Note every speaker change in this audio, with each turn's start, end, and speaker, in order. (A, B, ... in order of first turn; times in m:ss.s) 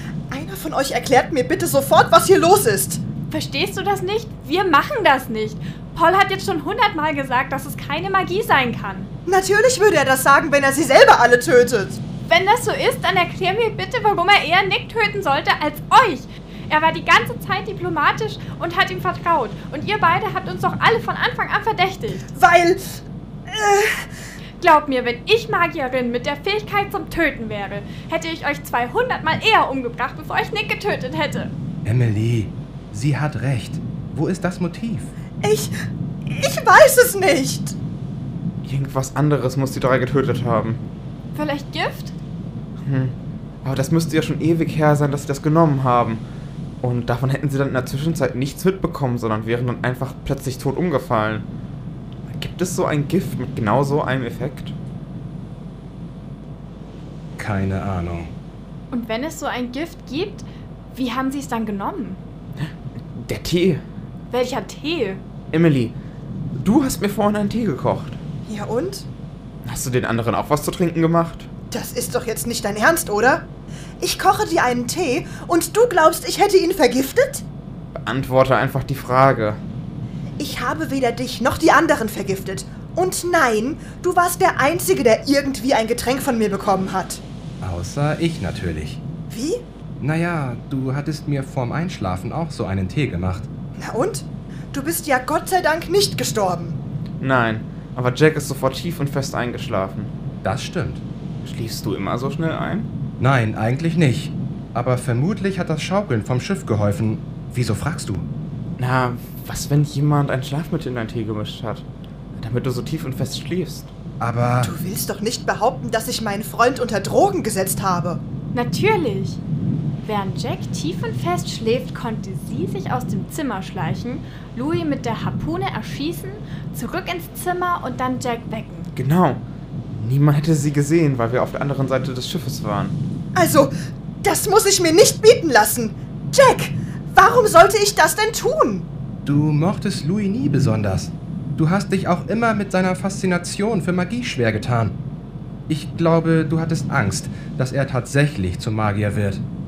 0:00.3-0:03.0 A
0:03.3-0:09.1 B
0:09.3-0:12.0 A
0:12.3-0:22.3 B
0:22.3-0:24.1 A
0:24.6-0:31.5 B
0:31.8-0:35.1 C
0:35.4-0:35.7 A
0:36.3-0:37.8 A
0:38.6-0:40.8 D
0:41.4-0:42.1 B
0:42.8-0:46.2 D
0:46.8-0:51.4 D
0:52.3-0:54.7 D
0:57.4-0:58.3 C
0:58.9-1:02.2 B
1:02.6-1:03.8 D
1:04.3-1:05.2 B
1:05.5-1:05.9 D
1:06.6-1:08.2 D
1:08.5-1:09.1 A
1:09.6-1:11.5 D
1:11.7-1:13.5 A
1:14.0-1:17.4 A
1:18.0-1:19.6 D
1:20.4-1:27.2 A
1:27.6-1:29.0 C
1:29.3-1:29.6 A
1:30.0-1:33.5 C
1:33.8-1:36.8 A
1:37.2-1:40.1 D
1:40.4-1:41.0 C
1:41.4-1:42.9 D
1:43.2-1:48.3 C
1:48.8-1:51.8 D
1:52.4-1:53.9 D
1:54.2-1:54.7 C
1:54.6-1:58.2 A
1:58.5-1:59.4 B
2:00.0-2:08.9 B
2:09.0-2:13.0 D
2:13.4-2:18.9 A
2:19.2-2:25.0 C
2:25.7-2:29.4 C